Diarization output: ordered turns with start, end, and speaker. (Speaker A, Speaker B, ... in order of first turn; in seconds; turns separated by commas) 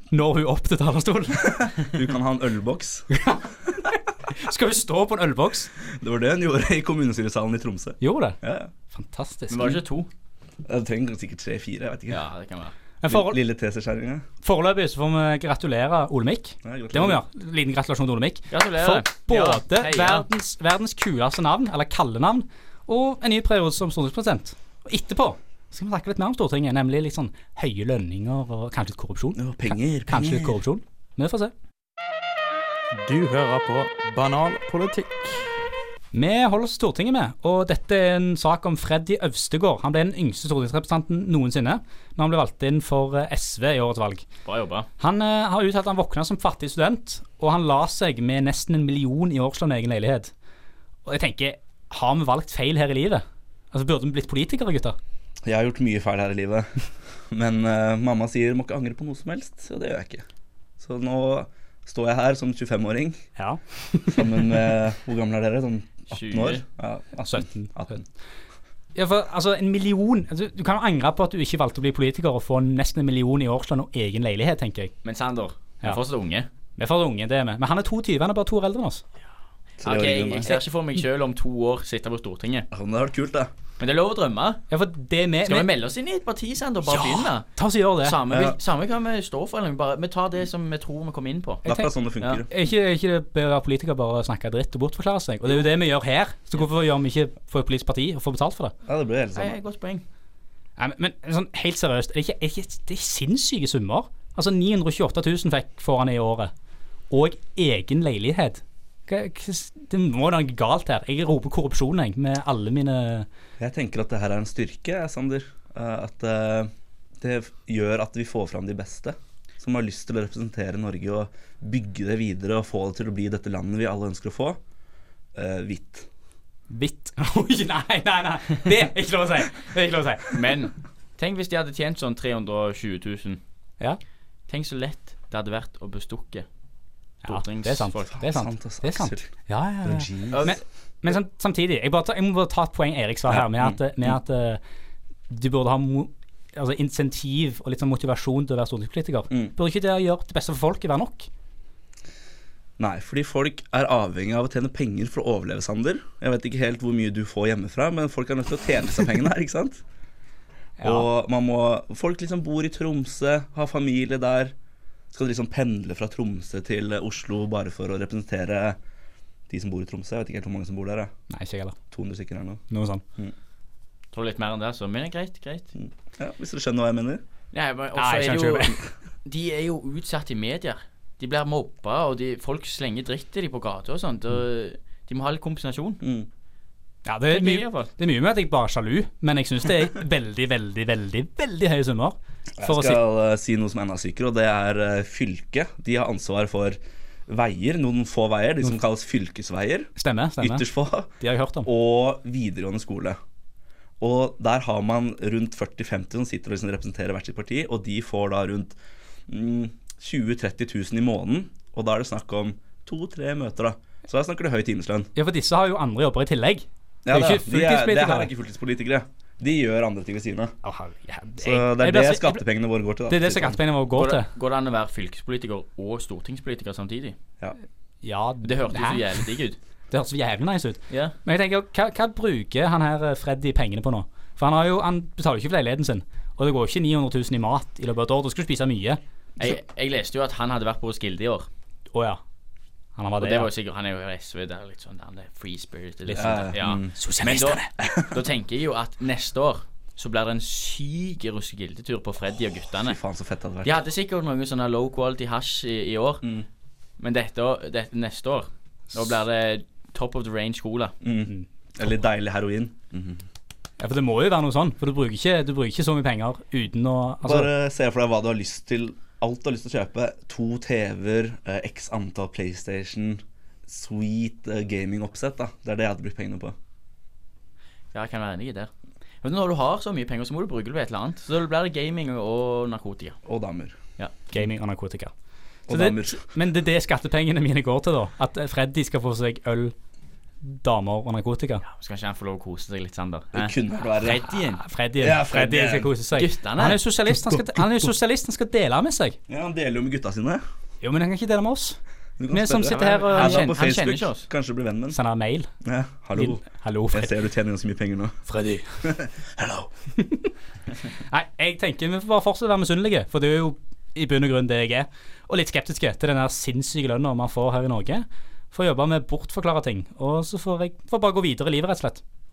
Speaker A: 0.1-1.7, Speaker B: 1.4-3.1, Speaker A: 3.1-5.7, Speaker B: 5.9-8.7, Speaker A: 8.0-8.4, Speaker A: 8.9-9.8, Speaker C: 9.5-10.1, Speaker B: 10.7-12.2, Speaker C: 12.1-12.7, Speaker A: 13.0-13.4, Speaker B: 13.1-14.3, Speaker A: 14.4-31.5, Speaker B: 16.6-17.2, Speaker C: 18.5-20.2, Speaker B: 29.4-30.6, Speaker D: 33.0-35.4, Speaker A: 36.1-44.3, Speaker C: 44.5-44.9, Speaker A: 45.0-50.3, Speaker A: 51.1-55.0, Speaker B: 55.4-60.3, Speaker B: 60.8-63.2, Speaker A: 63.4-64.6, Speaker B: 64.1-68.0, Speaker C: 66.1-66.6, Speaker A: 67.3-68.0, Speaker A: 69.0-74.9, Speaker C: 75.0-76.5, Speaker A: 76.8-79.0, Speaker B: 79.8-80.6, Speaker C: 79.8-82.7, Speaker B: 82.7-83.5, Speaker C: 83.8-84.6, Speaker A: 84.7-85.7, Speaker C: 85.5-87.5, Speaker A: 86.9-88.2, Speaker C: 88.0-91.7, Speaker B: 88.3-88.6, Speaker B: 91.7-92.5, Speaker A: 91.7-91.9, Speaker A: 92.5-98.7, Speaker B: 98.9-99.6, Speaker C: 99.4-100.0, Speaker A: 100.8-106.5, Speaker A: 107.1-113.3, Speaker B: 113.6-124.6, Speaker B: 125.3-126.1, Speaker A: 126.7-130.4, Speaker C: 130.3-133.4, Speaker C: 134.5-136.5, Speaker A: 137.2-144.6, Speaker C: 137.3-138.1, Speaker B: 138.1-139.3, Speaker B: 139.8-140.6, Speaker C: 140.3-140.6, Speaker B: 143.3-144.2, Speaker A: 145.3-151.3, Speaker B: 152.8-159.8, Speaker A: 160.8-161.1, Speaker B: 160.8-164.5, Speaker B: 165.1-168.8, Speaker B: 169.5-171.1, Speaker A: 171.3-171.8, Speaker B: 171.9-172.6, Speaker A: 172.7-173.0, Speaker C: 174.1-175.7, Speaker B: 175.8-177.2, Speaker C: 177.5-186.0, Speaker A: 177.9-178.8, Speaker B: 186.0-186.3, Speaker A: 187.1-193.0, Speaker C: 187.3-187.9, Speaker B: 192.6-201.1, Speaker A: 200.0-200.7, Speaker A: 201.2-201.7, Speaker B: 201.6-203.2, Speaker B: 204.0-208.8, Speaker B: 209.3-215.1, Speaker A: 215.2-218.3, Speaker B: 217.1-220.5, Speaker A: 220.6-222.4, Speaker B: 221.4-223.6, Speaker A: 223.1-224.3, Speaker C: 223.9-227.2, Speaker A: 228.0-229.2, Speaker C: 228.4-229.6, Speaker A: 229.9-239.0, Speaker C: 230.9-231.2, Speaker C: 239.4-241.5, Speaker A: 241.9-242.2, Speaker A: 243.0-243.5, Speaker C: 243.2-253.0, Speaker A: 246.1-247.7, Speaker B: 246.1-246.9, Speaker B: 247.8-248.2, Speaker B: 252.7-253.8, Speaker C: 253.6-256.2, Speaker C: 257.0-260.9, Speaker B: 261.0-263.2, Speaker A: 263.8-267.5, Speaker B: 267.2-276.6, Speaker C: 277.9-278.7, Speaker C: 279.2-283.2, Speaker B: 283.3-283.8, Speaker A: 284.3-285.1, Speaker B: 285.7-286.3, Speaker A: 285.7-289.7, Speaker A: 290.4-291.6, Speaker C: 291.7-294.6, Speaker B: 293.3-294.3, Speaker A: 294.3-299.2, Speaker B: 295.0-295.9, Speaker C: 296.1-296.8, Speaker B: 297.1-297.9, Speaker B: 299.3-300.4, Speaker A: 300.8-301.8, Speaker B: 302.2-305.0, Speaker A: 302.3-303.6, Speaker C: 302.7-304.3, Speaker A: 304.9-305.5, Speaker B: 305.6-308.2, Speaker A: 306.1-307.1, Speaker A: 308.3-308.7, Speaker B: 308.8-309.7, Speaker A: 310.0-310.3, Speaker A: 311.0-322.0